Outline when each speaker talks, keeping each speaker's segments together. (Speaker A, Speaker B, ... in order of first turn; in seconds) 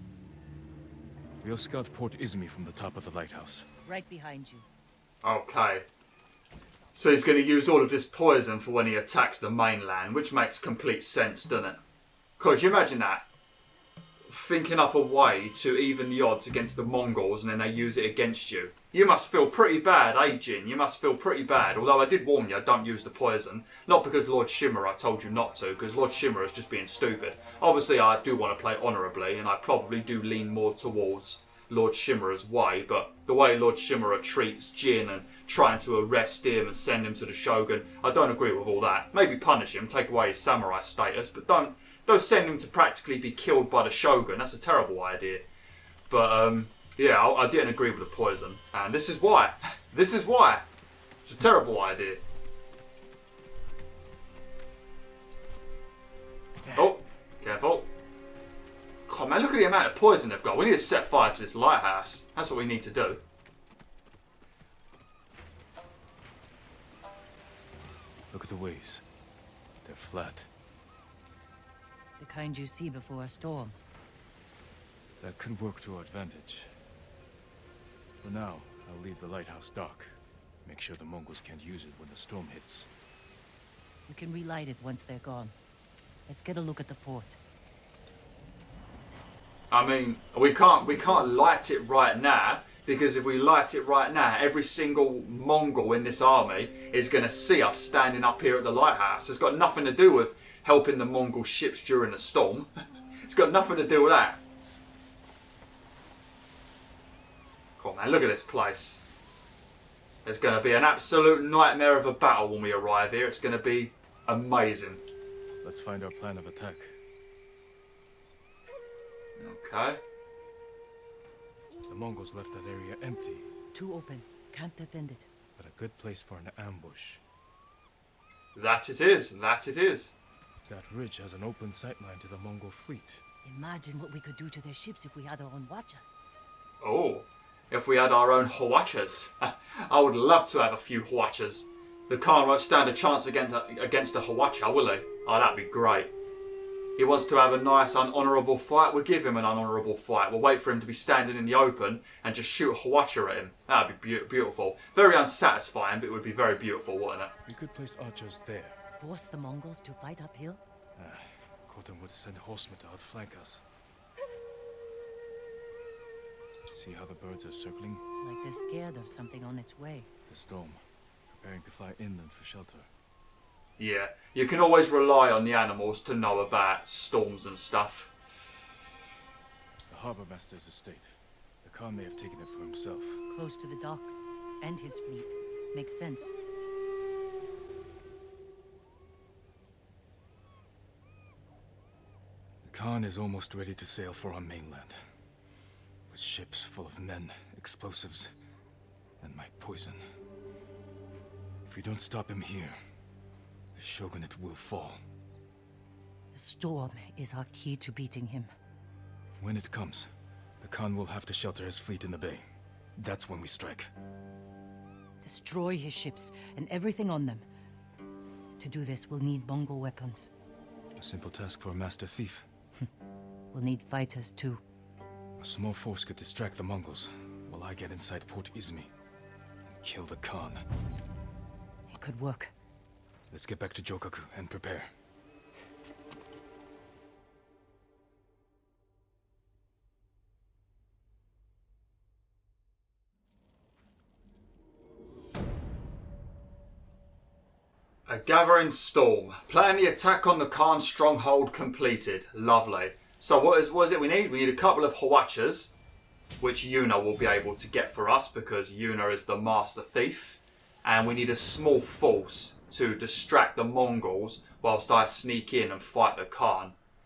Speaker A: 1.4-3.7, 68.3-69.0, 69.8-70.5, 75.2-76.7, 78.2-82.9, 115.6-117.0, 121.9-123.5, 125.6-127.2, 130.7-133.2, 157.5-158.8, 161.0-163.6, 166.7-168.0, 170.3-172.9, 179.9-183.2, 192.6-195.0, 196.1-198.3, 199.2-200.0, 201.7-202.8, 203.8-205.0, 209.4-210.1, 210.6-212.4, 213.0-213.9, 221.0-222.5, 225.4-228.9, 229.8-230.6, 233.3-234.9
Speaker B: 3.9-4.7, 72.2-73.8, 84.1-85.5, 86.3-87.4, 123.7-125.3, 133.4-136.2, 159.0-160.6, 168.2-170.1, 183.3-186.4, 206.3-208.5, 215.2-217.4, 218.6-220.3, 223.5-224.6, 231.9-232.5
Speaker C: 5.2-5.9, 7.0-11.8, 12.4-13.3, 14.3-45.5, 46.1-50.7, 51.2-52.2, 56.7-57.9, 59.1-63.2, 89.7-102.7, 103.2-104.4, 107.8-109.0, 110.2-115.0, 119.4-120.0, 128.6-130.2, 136.8-146.1, 147.0-157.3, 173.8-178.1, 248.1-255.7, 256.4-266.8